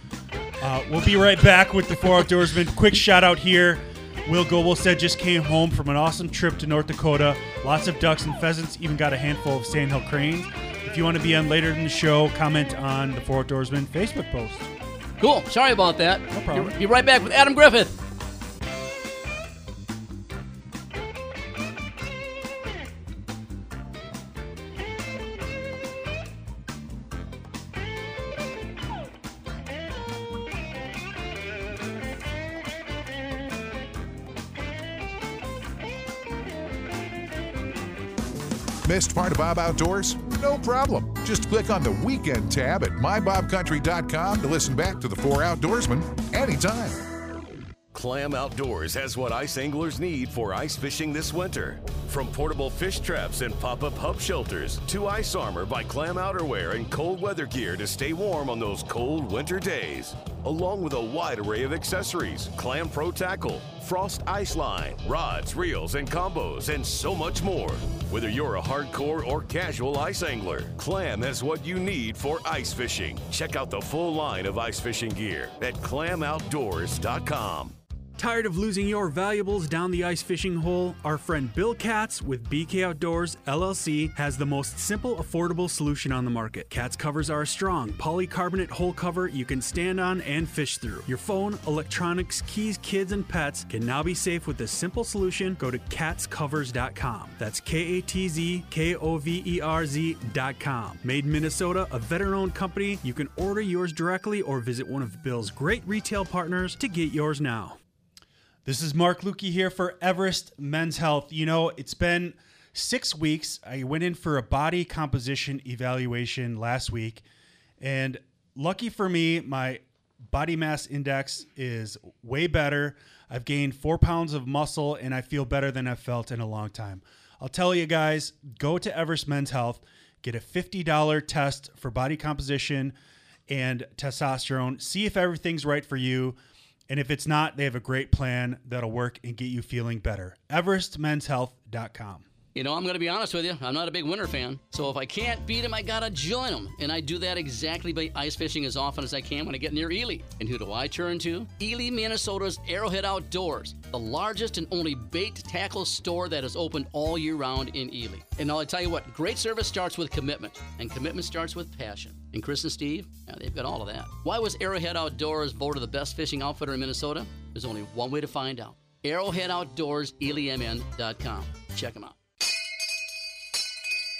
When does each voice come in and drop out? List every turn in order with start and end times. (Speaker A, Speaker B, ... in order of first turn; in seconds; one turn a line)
Speaker A: 0.6-14.7
Speaker B: 15.2-17.9
Speaker A: 16.3-16.8
Speaker C: 38.8-47.1
Speaker D: 47.9-77.7
Speaker A: 78.2-107.8
Speaker A: 108.6-117.2
Speaker A: 117.8-132.9
Speaker A: 133.5-136.4
Speaker A: 136.9-142.2
Speaker B: 142.5-172.2